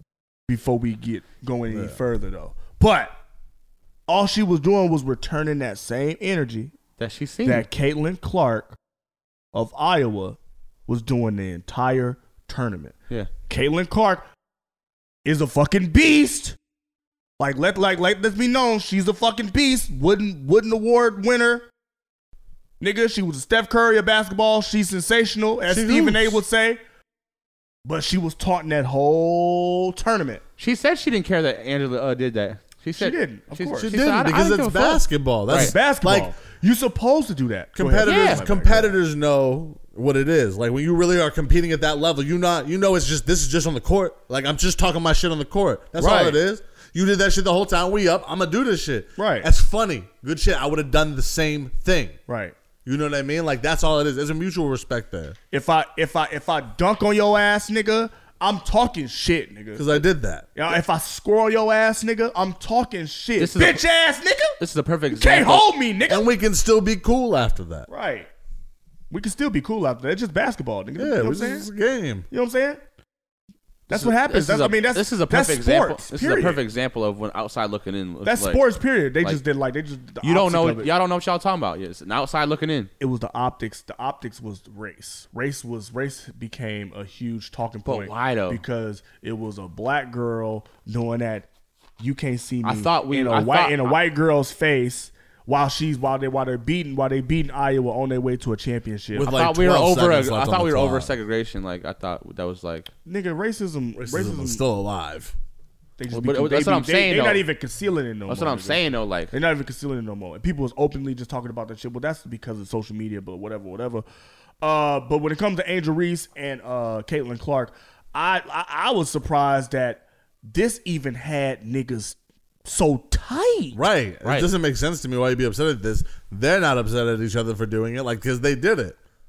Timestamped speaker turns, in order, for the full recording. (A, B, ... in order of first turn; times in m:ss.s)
0:00.5-0:03.1 A
0:01.7-0:02.0 B
0:04.1-0:06.7 A
0:07.0-0:07.6 C
0:07.4-0:08.8 A
0:09.5-0:13.0 A
0:13.5-0:14.2 A
0:15.2-0:16.6 A
0:17.4-0:21.6 A
0:22.8-0:26.8 A
0:25.7-0:26.4 B
0:27.8-0:30.4 A
0:30.6-0:35.7 C
0:33.0-0:33.9 A
0:33.8-0:36.3 B
0:35.5-0:39.0 A
0:37.8-0:52.2 B
0:38.0-0:38.4 C
0:46.0-0:46.4 A
0:49.2-0:49.5 A
0:52.3-0:52.5 A
0:52.8-0:55.4 B
0:55.5-1:00.0 A
0:59.7-1:00.5 B
1:00.5-1:04.6 A
1:03.4-1:03.8 C
1:04.6-1:05.6 C
1:05.1-1:06.3 A
1:06.1-1:07.9 B
1:07.9-1:08.3 A
1:09.1-1:11.7 A
1:11.0-1:12.3 B
1:12.3-1:12.8 A
1:13.9-1:16.6 A
1:13.9-1:18.6 C
1:18.2-1:20.9 A
1:20.2-1:22.9 C
1:23.0-1:31.5 A
1:27.8-1:28.6 C
1:32.0-1:39.3 A
1:32.6-1:34.0 C
1:39.1-1:41.1 B
1:39.2-1:42.9 C
1:43.0-1:44.6 A
1:44.0-1:45.4 B
1:46.0-1:54.0 A
1:46.1-1:47.4 C
1:48.3-1:49.3 C
1:54.6-2:03.8 A
2:03.7-2:09.0 B
2:04.2-2:04.5 C